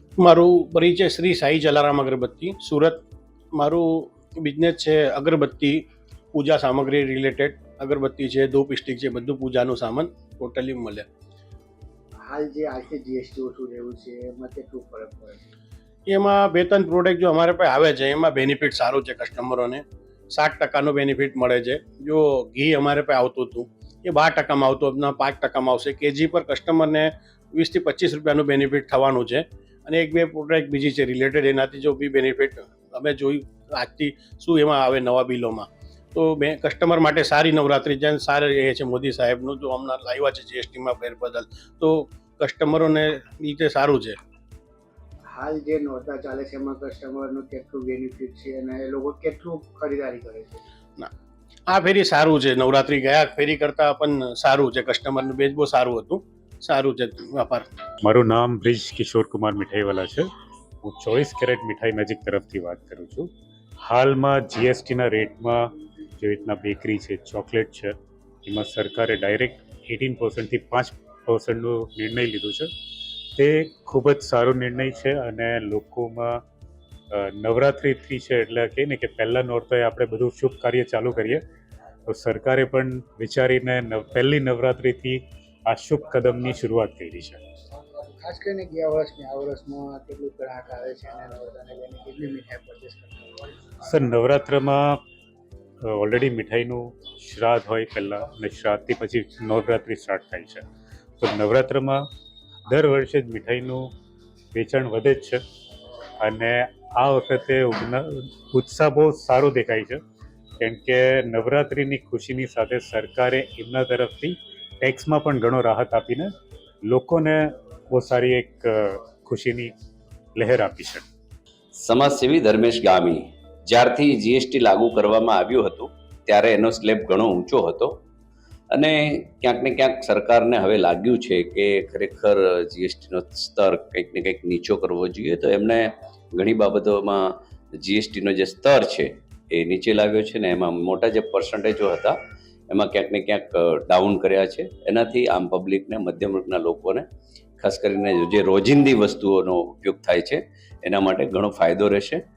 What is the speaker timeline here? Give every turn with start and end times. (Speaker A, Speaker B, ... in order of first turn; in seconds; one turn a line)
Speaker A: 0.2-3.0
Speaker A: 3.5-11.1
Speaker B: 12.2-15.4
Speaker A: 16.1-44.2
Speaker B: 45.3-50.6
Speaker A: 51.7-57.7
Speaker C: 58.0-60.3
Speaker C: 60.8-63.3
Speaker C: 63.9-65.6
Speaker C: 66.2-67.9
Speaker C: 68.5-72.7
Speaker C: 73.4-76.4
Speaker C: 77.1-81.4
Speaker C: 82.1-87.4
Speaker B: 88.0-93.4
Speaker C: 93.8-95.0
Speaker C: 95.9-100.6
Speaker C: 101.2-102.0
Speaker C: 102.7-103.9
Speaker C: 104.5-105.4
Speaker C: 106.2-110.0
Speaker C: 110.6-116.3
Speaker C: 116.8-119.7
Speaker C: 120.4-121.0
Speaker D: 121.8-128.0
Speaker D: 128.7-142.2
Speaker D: 142.7-147.0
Speaker D: 147.6-152.2